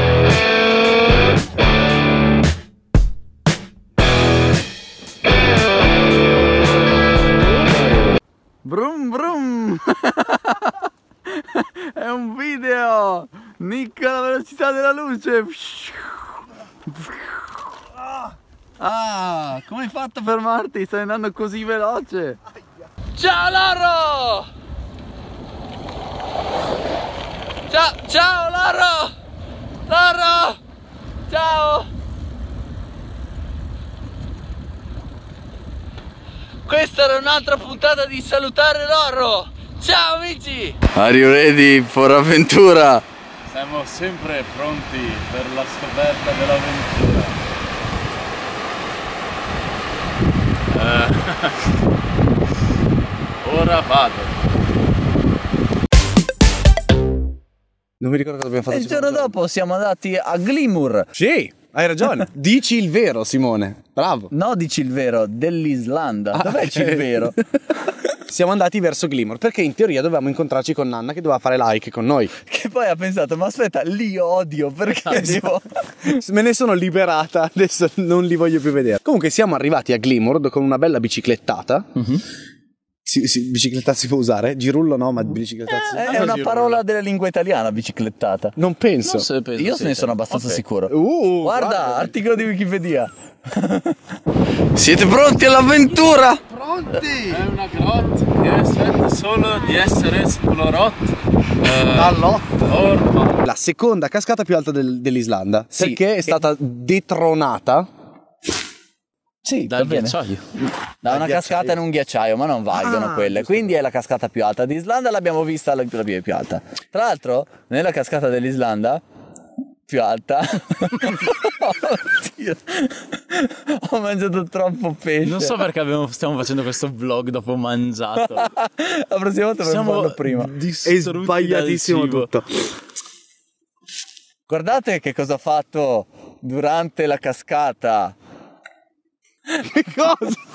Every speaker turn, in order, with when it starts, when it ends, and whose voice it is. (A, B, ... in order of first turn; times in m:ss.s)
0:08.6-0:17.9 A
0:18.8-0:22.4 A
0:23.2-0:24.5 A
0:27.7-0:29.1 A
0:29.9-0:30.6 A
0:31.3-0:31.9 A
0:36.7-0:43.0 A
0:43.5-0:47.4 B
0:50.7-0:51.6 B
0:53.4-0:54.3 B
0:58.0-0:59.4 C
0:58.7-1:01.1 A
1:01.2-1:04.3 C
1:04.3-1:07.4 A
1:06.3-1:07.4 C
1:08.3-1:12.3 C
1:12.5-1:16.2 A
1:15.0-1:15.4 B
1:15.2-1:15.5 C
1:16.0-1:21.9 C
1:23.0-1:26.3 C
1:25.7-1:26.8 B
1:25.9-1:28.6 A
1:28.6-1:29.3 C
1:29.0-1:30.6 B
1:29.6-1:34.0 A
1:30.9-1:32.1 C
1:34.8-1:36.4 A
1:36.5-1:37.4 C
1:37.0-1:43.4 B
1:41.9-1:42.7 C
1:43.4-1:47.9 C
1:45.8-1:46.4 A
1:49.4-1:50.2 A
1:49.7-1:50.5 B
1:51.0-1:59.0 A
1:51.1-1:51.8 C
1:52.7-1:53.8 C
1:59.9-2:05.6 A
2:05.2-2:08.5 B
2:08.2-2:10.5 A
2:09.6-2:12.3 B
2:10.8-2:12.7 C
2:14.5-2:18.2 A
2:19.6-2:20.4 C